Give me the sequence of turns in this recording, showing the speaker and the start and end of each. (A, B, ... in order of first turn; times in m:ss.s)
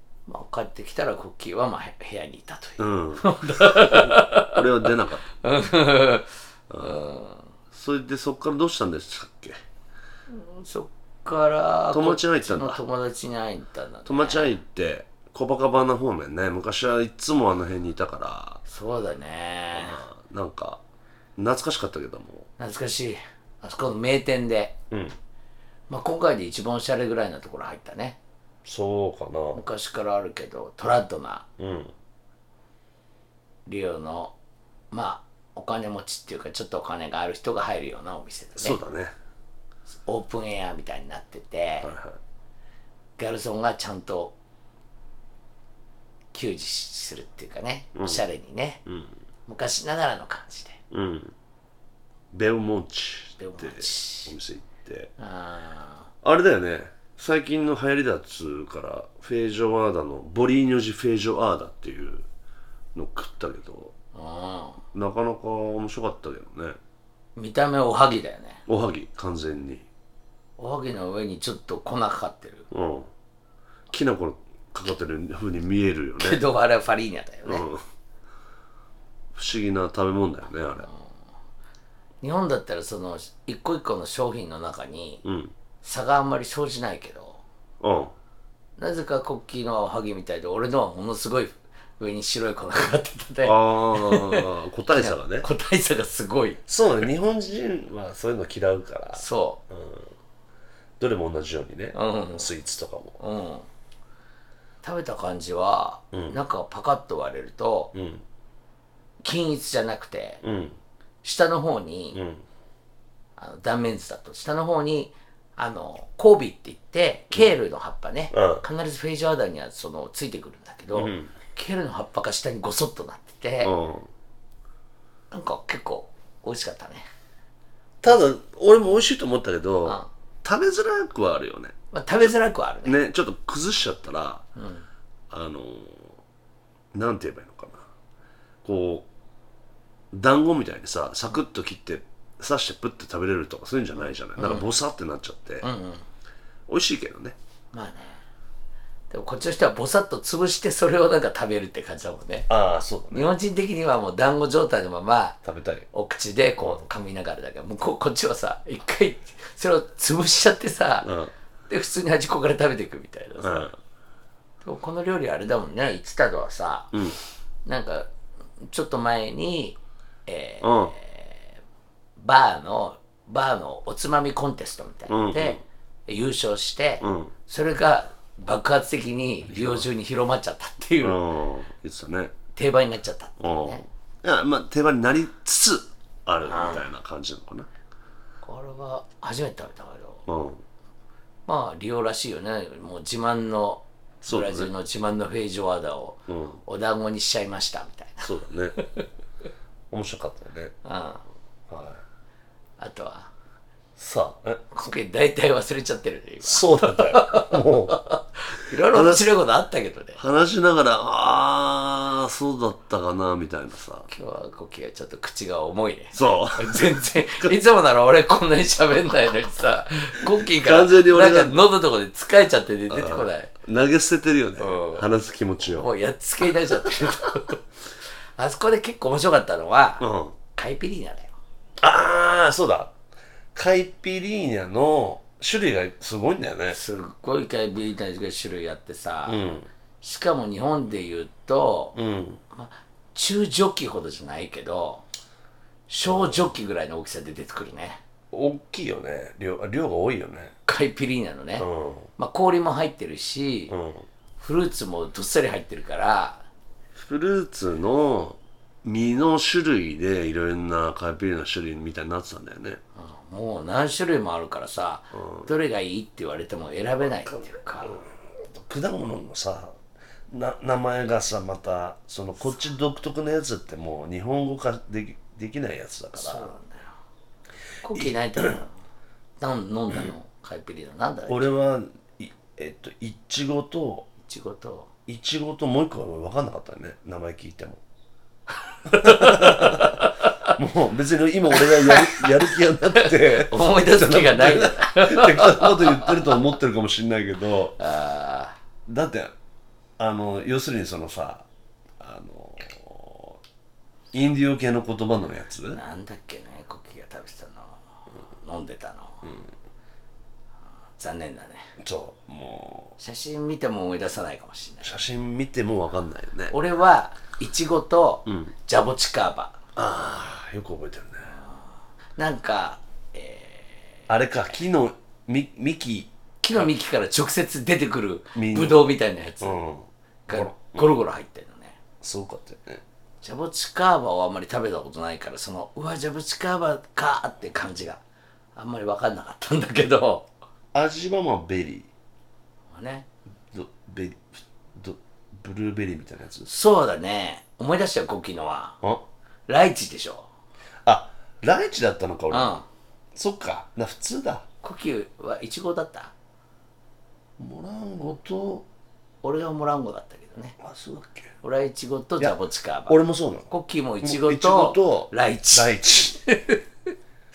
0:00.3-0:07.5 A
0:02.8-0:05.3 B
0:06.7-0:07.0 B
0:07.7-0:09.6 B
0:10.3-0:14.6 A
0:11.9-0:12.8 B
0:14.1-0:18.6 B
0:18.7-0:20.0 A
0:19.7-0:20.8 B
0:21.4-0:22.5 B
0:22.6-0:24.8 A
0:24.9-0:25.2 B
0:25.9-0:28.2 A
0:28.6-0:29.6 B
0:29.5-0:31.5 A
0:31.6-0:31.9 B
0:33.7-0:34.3 A
0:34.9-0:38.8 A
0:38.6-0:39.2 B
0:40.1-0:41.9 A
0:41.8-0:42.2 B
0:43.2-0:44.3 A
0:46.3-0:48.8 A
0:48.0-0:48.2 B
0:48.9-0:49.1 B
0:49.5-0:50.8 A
0:50.9-0:51.3 B
0:52.3-0:55.1 B
0:53.4-0:54.4 A
0:55.2-0:56.1 A
0:56.2-1:02.3 B
1:02.9-1:04.0 B
1:04.2-1:04.8 A
1:04.9-1:06.8 B
1:07.4-1:08.6 A
1:08.7-1:09.9 B
1:10.6-1:12.7 A
1:12.7-1:13.1 B
1:13.9-1:16.4 B
1:16.2-1:17.6 A
1:17.4-1:17.8 B
1:19.4-1:20.9 B
1:22.2-1:25.2 A
1:25.2-1:25.5 B
1:25.8-1:27.4 A
1:27.8-1:28.2 B
1:28.8-1:36.6 A
1:33.4-1:35.5 B
1:36.7-1:40.1 B
1:39.1-1:39.6 A
1:41.0-1:43.2 B
1:41.9-1:42.5 A
1:43.2-1:43.7 A
1:44.8-1:47.9 A
1:46.1-1:46.4 B
1:47.9-1:48.2 B
1:49.2-1:50.4 A
1:50.4-1:50.8 B
1:51.2-1:52.2 A
1:52.2-1:52.4 B
1:53.4-2:03.8 A
1:58.3-1:58.6 B
2:01.0-2:01.3 B
2:03.6-2:04.1 B
2:05.3-2:07.0 A
2:08.0-2:12.3 B
2:11.9-2:13.0 A
2:12.8-2:14.4 B
2:14.6-2:14.8 A
2:15.3-2:16.2 B
2:16.9-2:17.9 B
2:18.6-2:19.1 B
2:20.1-2:25.7 B
2:24.4-2:24.7 A
2:25.6-2:26.0 A
2:26.7-2:27.4 B
2:27.7-2:28.2 A
2:29.1-2:32.5 A
2:32.5-2:33.3 B
2:33.1-2:35.4 A
2:35.4-2:35.9 B
2:35.9-2:41.1 A
2:41.0-2:41.3 B
2:41.7-2:43.7 A
2:43.4-2:43.8 B
2:44.6-2:46.9 A
2:47.6-2:48.1 A
2:48.6-2:51.5 A
2:50.6-2:50.9 B
2:52.2-3:01.2 A
2:55.1-2:55.6 B
2:57.0-2:57.3 B
2:59.5-2:59.9 B
3:01.0-3:02.3 B
3:02.6-3:03.8 A
3:03.4-3:07.7 B
3:06.5-3:06.9 A
3:08.4-3:10.3 A
3:10.3-3:10.6 B
3:11.5-3:19.0 A
3:14.2-3:14.7 B
3:16.3-3:16.6 B
3:18.2-3:18.8 B
3:19.9-3:20.7 B
3:20.8-3:21.2 A
3:21.7-3:22.0 B
3:22.8-3:23.3 A
3:24.0-3:24.6 B
3:24.7-3:30.2 A
3:26.4-3:28.0 B
3:28.9-3:29.2 B
3:30.2-3:34.1 B
3:34.1-3:43.5 A
3:36.1-3:37.6 B
3:40.6-3:41.6 B
3:42.9-3:45.9 B
3:44.6-3:45.1 A
3:45.7-3:47.6 A
3:46.7-3:47.2 B
3:48.4-3:51.3 A
3:50.0-3:50.4 B
3:51.8-3:52.9 B
3:53.5-3:56.8 B
3:56.7-3:59.4 A
3:59.3-3:59.7 B
4:00.0-4:02.0 A
4:02.0-4:02.4 B
4:02.5-4:05.0 A
4:05.9-4:08.0 A
4:06.0-4:06.5 B
4:08.3-4:10.6 B
4:10.7-4:13.7 A
4:11.6-4:12.1 B
4:13.7-4:14.1 B
4:14.4-4:16.4 A
4:17.0-4:22.8 B
4:23.0-4:28.0 A
4:25.1-4:25.5 B
4:27.8-4:29.8 B
4:30.3-4:36.5 B
4:36.2-4:37.0 A
4:37.8-4:38.7 A
4:38.0-4:38.6 B
4:39.4-4:41.5 A
4:41.3-4:44.1 B
4:44.2-4:44.9 A
4:45.1-4:47.8 B
4:48.9-4:50.5 A
4:48.9-4:57.8 B
4:51.5-4:56.4 A
4:57.8-4:58.6 A
4:58.9-4:59.3 B
5:00.0-5:01.4 B
5:02.0-5:03.4 B
5:04.1-5:05.8 B
5:05.7-5:09.3 A
5:11.0-5:11.7 A
5:11.8-5:13.0 B
5:13.0-5:15.0 A
5:14.8-5:16.6 B
5:16.5-5:19.6 A
5:18.3-5:18.5 B
5:19.8-5:21.3 B
5:22.2-5:24.0 A
5:24.1-5:26.7 B
5:26.4-5:29.6 A
5:28.4-5:28.8 B
5:29.4-5:31.0 B
5:30.3-5:31.8 A
5:32.0-5:32.8 B
5:33.2-5:38.0 A
5:38.6-5:40.3 A
5:40.7-5:41.9 B
5:42.7-5:43.1 A
5:43.5-5:46.5 B
5:46.5-5:48.8 A
5:49.5-5:50.3 A
5:50.8-5:52.6 B
5:52.3-5:52.7 A
5:53.2-5:54.5 B
5:54.6-5:56.1 A
5:57.4-5:58.7 B
5:59.2-6:00.6 A
6:00.6-6:01.3 B
6:01.4-6:06.6 A
6:02.9-6:03.5 B
6:04.0-6:06.2 B